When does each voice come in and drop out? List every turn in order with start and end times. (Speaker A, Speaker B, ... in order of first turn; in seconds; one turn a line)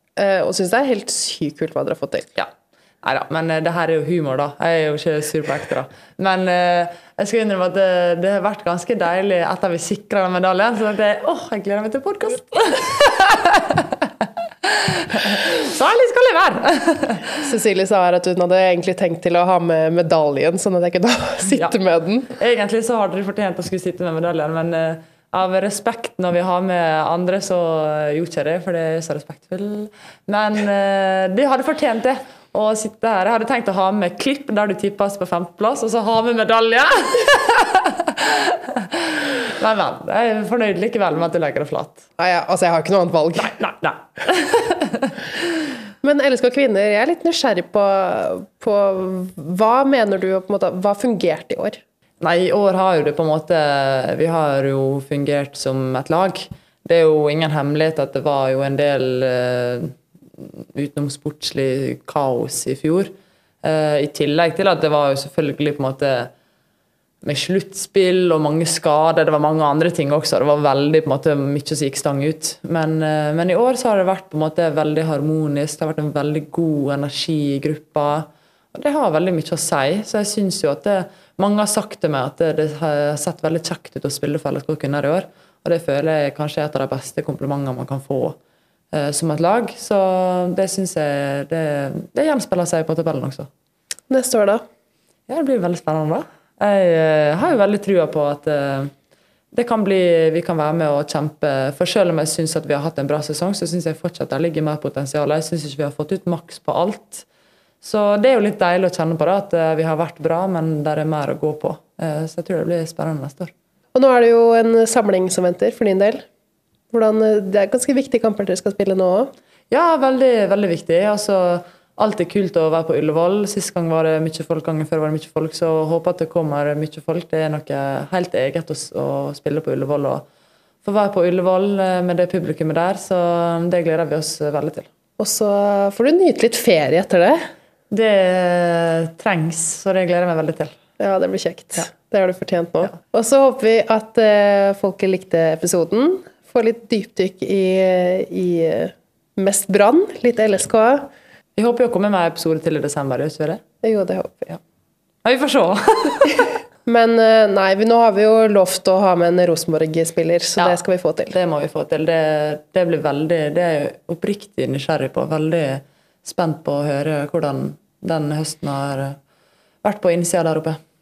Speaker A: 0.1-2.3
Speaker B: 3.0-14.1
Speaker B: 14.6-17.3
Speaker A: 17.4-22.3
Speaker B: 22.4-42.0
Speaker A: 42.2-43.6
Speaker B: 43.4-45.2
Speaker A: 46.0-51.8
Speaker B: 52.2-63.1
Speaker B: 63.6-66.3
Speaker B: 67.2-88.4
Speaker B: 88.9-93.5
Speaker A: 94.1-94.6
Speaker B: 95.3-98.9
Speaker B: 99.5-107.2
Speaker B: 107.8-113.5
Speaker A: 113.9-116.2
Speaker A: 116.9-119.3
Speaker B: 119.7-130.2
Speaker B: 130.8-134.9
Speaker A: 135.2-137.5
Speaker B: 137.9-140.7
Speaker A: 141.0-151.1
Speaker B: 151.6-153.6
Speaker A: 153.8-154.6
Speaker B: 155.2-156.5
Speaker A: 156.8-161.3
Speaker B: 161.3-169.2
Speaker B: 169.8-170.8